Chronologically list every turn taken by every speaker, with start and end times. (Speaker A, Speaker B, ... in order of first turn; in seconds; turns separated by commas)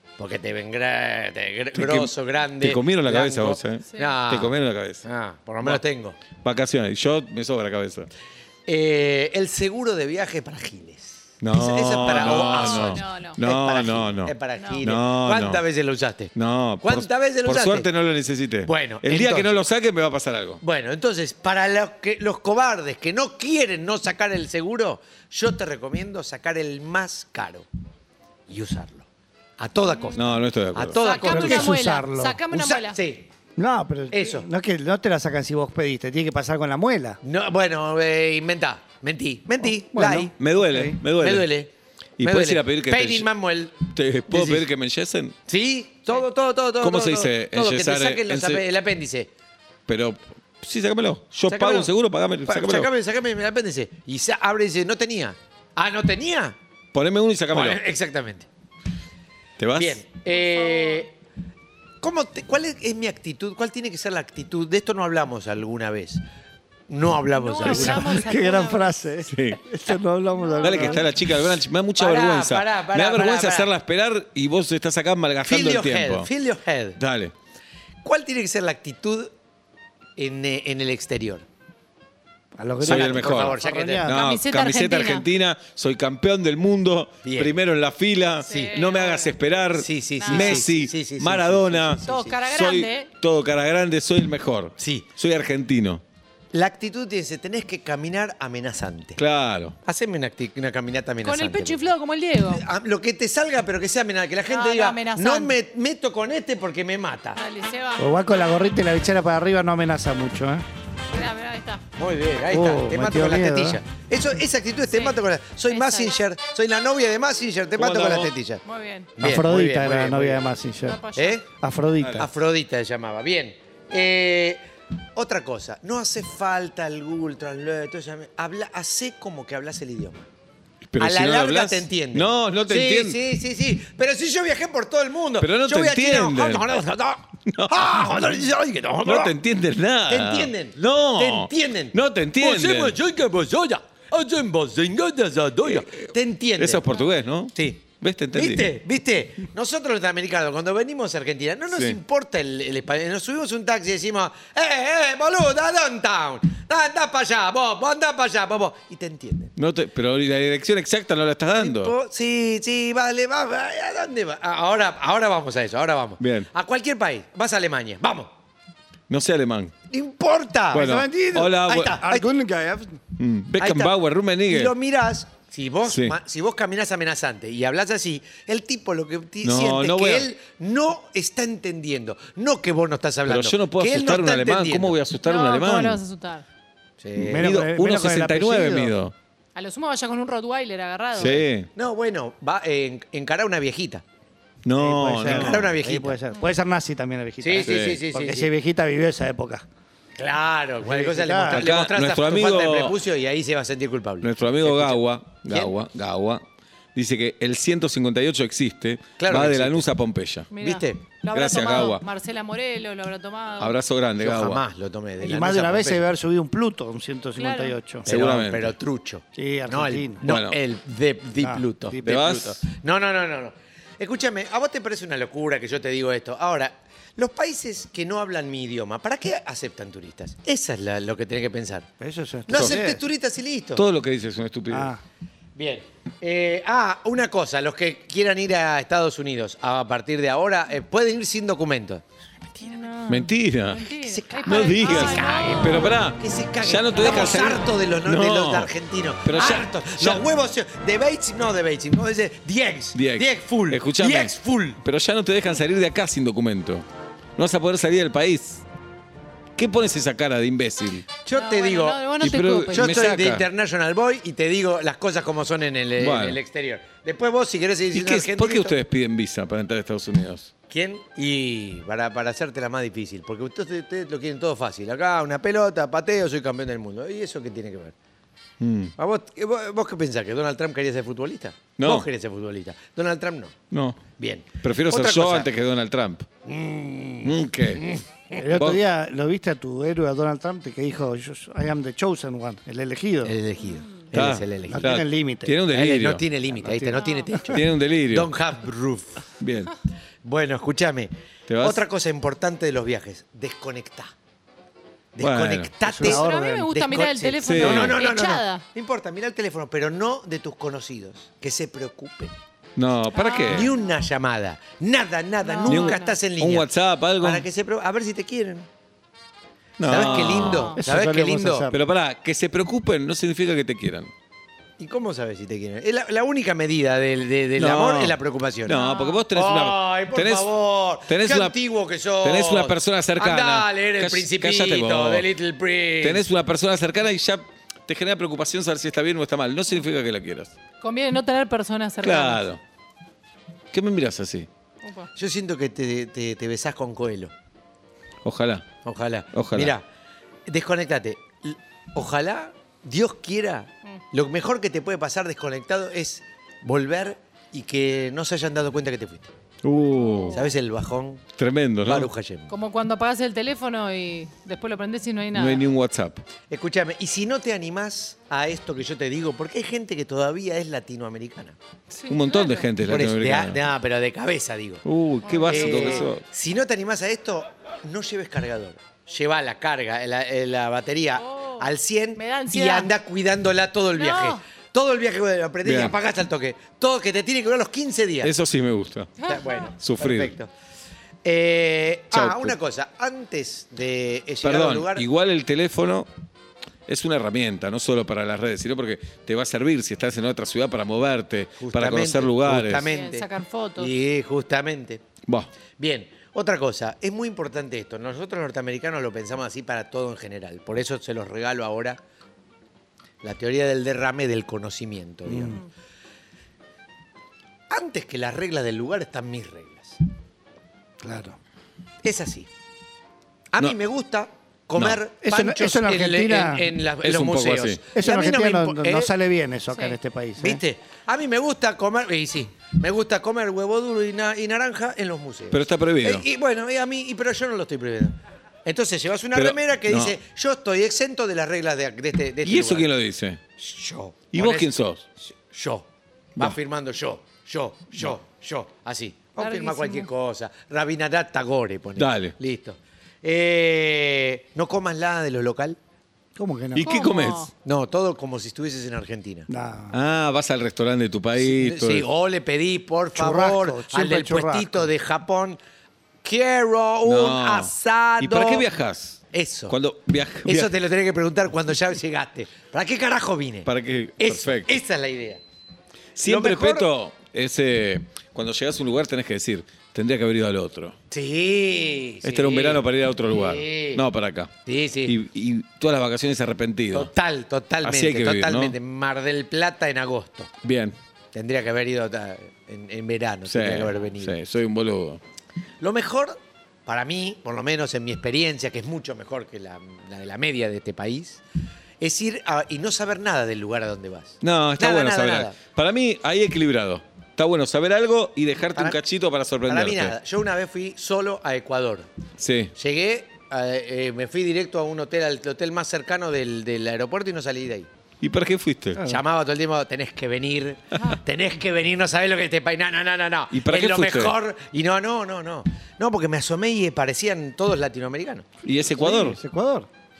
Speaker A: 0.2-6.2, Speaker B: 1.8-5.0, Speaker C: 3.9-4.2, Speaker B: 6.4-8.1, Speaker A: 8.7-17.9, Speaker B: 11.4-15.6, Speaker C: 12.0-13.4, Speaker B: 16.4-20.6, Speaker A: 18.6-19.6, Speaker A: 20.6-27.7, Speaker A: 28.5-29.1, Speaker A: 29.6-31.8, Speaker B: 30.1-31.0, Speaker C: 30.9-33.0, Speaker D: 31.2-32.4, Speaker A: 32.5-33.3, Speaker D: 33.6-37.2, Speaker A: 34.1-34.5, Speaker A: 37.2-40.3, Speaker D: 39.6-41.0, Speaker B: 40.3-41.5, Speaker A: 41.1-44.7, Speaker B: 42.2-43.3, Speaker B: 43.9-45.4, Speaker A: 45.5-49.3, Speaker B: 46.8-48.6, Speaker B: 49.9-52.9, Speaker A: 51.5-51.9, Speaker A: 52.4-56.5, Speaker B: 56.9-57.8, Speaker A: 57.5-58.5, Speaker B: 59.6-60.0, Speaker A: 59.8-61.1, Speaker C: 60.3-61.0, Speaker A: 62.0-66.2, Speaker A: 66.9-68.2, Speaker C: 67.3-69.0, Speaker D: 67.6-71.1, Speaker B: 69.3-69.6, Speaker C: 70.3-71.1, Speaker B: 70.6-76.3, Speaker A: 72.0-73.7, Speaker A: 75.5-77.0, Speaker B: 77.0-77.3, Speaker A: 78.0-79.3, Speaker A: 80.2-81.5, Speaker D: 82.6-84.2, Speaker A: 82.8-84.1, Speaker B: 82.9-96.0, Speaker C: 84.1-85.3, Speaker A: 87.2-87.5, Speaker C: 88.5-89.4, Speaker A: 88.5-88.8, Speaker A: 89.8-92.4, Speaker C: 90.2-90.7, Speaker C: 92.1-93.1, Speaker A: 94.8-95.1, Speaker A: 96.5-99.2, Speaker B: 99.2-99.8, Speaker A: 99.8-101.9, Speaker C: 101.2-102.6, Speaker A: 102.5-107.4, Speaker C: 104.5-105.5, Speaker C: 107.4-108.2, Speaker D: 108.0-110.7, Speaker C: 111.1-111.8, Speaker A: 112.0-118.6, Speaker D: 112.5-113.8, Speaker C: 114.9-115.2, Speaker C: 115.7-116.2, Speaker B: 117.8-118.3, Speaker C: 118.7-119.1, Speaker A: 119.2-120.5, Speaker D: 119.2-122.3, Speaker C: 120.8-121.4, Speaker A: 121.2-121.5, Speaker B: 122.0-122.3, Speaker A: 122.2-124.6, Speaker A: 125.2-130.2, Speaker B: 130.8-133.2, Speaker A: 131.0-139.4, Speaker B: 135.4-136.7, Speaker B: 137.5-138.2, Speaker B: 139.0-143.0, Speaker A: 140.1-146.9, Speaker B: 145.7-146.1, Speaker B: 146.6-148.7, Speaker A: 147.5-159.5, Speaker B: 151.7-152.0, Speaker B: 159.6-161.9, Speaker A: 161.5-168.3, Speaker B: 166.2-166.5, Speaker B: 169.1-169.7, Speaker A: 169.9-170.9, Speaker B: 170.7-172.0, Speaker D: 170.7-173.0, Speaker A: 171.5-172.3, Speaker B: 173.2-174.7, Speaker A: 173.6-185.0, Speaker B: 175.8-176.2, Speaker B: 179.4-180.3, Speaker B: 183.3-186.0, Speaker C: 185.2-186.4, Speaker A: 187.0-187.6, Speaker B: 187.2-189.1, Speaker D: 187.2-188.9, Speaker C: 189.6-191.4, Speaker B: 191.2-191.7, Speaker A: 191.3-194.0, Speaker B: 194.6-195.7, Speaker D: 194.8-199.7, Speaker A: 195.2-196.2, Speaker A: 197.4-198.5, Speaker B: 197.6-198.0, Speaker A: 200.2-205.7, Speaker D: 200.8-201.7, Speaker B: 201.5-203.0, Speaker B: 204.2-206.4, Speaker B: 206.9-210.5, Speaker A: 209.2-209.9, Speaker C: 210.5-213.8, Speaker A: 210.6-211.0, Speaker B: 211.3-212.0, Speaker B: 213.6-214.6, Speaker A: 214.2-216.1, Speaker D: 215.2-218.1, Speaker C: 217.4-217.8, Speaker B: 218.1-218.8, Speaker A: 218.1-231.9, Speaker D: 219.4-220.3, Speaker B: 220.2-220.6, Speaker D: 221.4-222.3, Speaker B: 222.0-222.6, Speaker D: 232.0-233.0, Speaker A: 232.5-233.8, Speaker B: 232.5-232.8, Speaker B: 233.8-234.9, Speaker D: 234.7-235.0, Speaker A: 235.6-242.9, Speaker C: 242.6-246.0, Speaker B: 243.1-243.9, Speaker A: 244.0-254.8, Speaker B: 244.5-248.7, Speaker C: 247.0-247.6, Speaker B: 249.2-250.2, Speaker B: 252.9-258.6, Speaker B: 259.6-261.1, Speaker A: 261.2-262.0, Speaker C: 261.3-263.1, Speaker B: 262.2-263.5, Speaker A: 262.7-268.8, Speaker B: 266.0-266.4, Speaker B: 267.9-270.5, Speaker A: 270.7-277.9, Speaker B: 278.6-278.9, Speaker A: 279.0-283.6, Speaker B: 281.8-282.1, Speaker B: 283.7-284.0, Speaker A: 284.2-285.5, Speaker B: 284.6-286.3, Speaker A: 286.4-288.4, Speaker B: 287.2-287.9, Speaker D: 288.4-293.4, Speaker B: 288.6-288.8, Speaker A: 293.2-295.0, Speaker B: 294.1-296.2, Speaker D: 294.7-295.6, Speaker A: 295.7-299.2, Speaker D: 296.5-297.4, Speaker C: 297.0-297.3, Speaker B: 297.5-298.3, Speaker B: 299.4-299.8, Speaker A: 300.2-304.1, Speaker B: 301.5-301.8, Speaker A: 305.1-312.4, Speaker B: 305.2-305.7, Speaker D: 305.9-306.7, Speaker C: 306.0-308.6, Speaker B: 307.4-308.0, Speaker B: 312.8-313.7, Speaker C: 313.1-313.8, Speaker A: 313.5-318.7, Speaker C: 315.4-316.2, Speaker B: 315.7-317.5, Speaker B: 319.8-320.7, Speaker A: 319.8-321.7, Speaker C: 320.2-320.8, Speaker D: 320.8-321.8, Speaker B: 321.7-324.1, Speaker A: 324.8-328.8, Speaker B: 327.6-330.5, Speaker C: 328.7-329.2, Speaker A: 329.3-336.3, Speaker B: 331.1-331.6, Speaker B: 332.2-335.3, Speaker B: 336.0-340.5, Speaker C: 340.8-342.5, Speaker B: 342.0-342.6, Speaker B: 343.7-344.5, Speaker C: 344.8-345.1, Speaker A: 345.2-347.3, Speaker B: 348.2-348.7, Speaker A: 348.8-349.9, Speaker B: 349.3-349.7, Speaker A: 350.5-359.3, Speaker B: 359.6-360.4, Speaker C: 359.9-360.5, Speaker A: 360.3-361.2, Speaker B: 361.4-362.1, Speaker A: 361.8-362.5, Speaker C: 362.5-365.6, Speaker B: 365.3-366.2, Speaker A: 366.5-371.6, Speaker C: 371.9-372.7, Speaker B: 372.1-373.6, Speaker A: 372.9-374.9, Speaker B: 374.9-376.2, Speaker C: 375.2-376.1, Speaker A: 375.4-388.3, Speaker C: 381.2-382.9, Speaker C: 384.0-384.4, Speaker B: 385.6-385.9, Speaker B: 388.2-389.1, Speaker C: 389.2-389.7, Speaker A: 389.2-390.5, Speaker B: 389.8-390.3, Speaker A: 391.2-395.1, Speaker B: 392.1-392.6, Speaker B: 394.4-396.1, Speaker B: 396.9-402.9, Speaker A: 401.6-405.0, Speaker C: 402.9-403.9, Speaker A: 405.8-412.0, Speaker A: 413.2-415.6, Speaker D: 415.3-415.6, Speaker A: 417.7-420.0, Speaker D: 421.0-421.4, Speaker A: 422.0-422.5, Speaker A: 423.5-429.1, Speaker D: 425.2-426.7, Speaker B: 427.0-427.8, Speaker D: 427.9-430.6, Speaker C: 429.7-430.0, Speaker A: 430.4-442.9, Speaker B: 435.5-436.2, Speaker B: 439.3-440.2, Speaker B: 442.4-443.4, Speaker A: 443.6-455.8, Speaker B: 444.3-445.0, Speaker C: 449.4-450.1, Speaker B: 452.0-452.3, Speaker D: 456.4-457.0, Speaker B: 456.8-457.5, Speaker C: 456.8-457.5, Speaker A: 457.6-459.5, Speaker D: 459.5-460.0, Speaker B: 459.9-462.1, Speaker A: 461.4-465.6, Speaker D: 463.1-464.9, Speaker A: 466.2-468.7, Speaker B: 467.1-470.7, Speaker A: 469.3-469.8, Speaker A: 470.4-475.4, Speaker B: 473.7-474.8, Speaker B: 476.2-481.0, Speaker A: 476.2-476.9, Speaker A: 481.1-484.1, Speaker B: 482.2-484.5, Speaker A: 484.6-485.2, Speaker B: 485.1-487.1, Speaker A: 486.9-490.5, Speaker B: 487.8-488.8, Speaker B: 490.6-491.0, Speaker A: 491.3-494.4, Speaker B: 493.5-495.2, Speaker A: 495.8-501.4, Speaker A: 502.0-505.6, Speaker B: 504.4-510.1, Speaker A: 509.6-512.1, Speaker B: 512.4-512.7, Speaker A: 512.8-517.9, Speaker B: 518.2-519.0, Speaker D: 519.0-519.2, Speaker A: 519.0-528.5, Speaker B: 523.5-524.3, Speaker B: 528.6-529.4, Speaker D: 528.9-529.9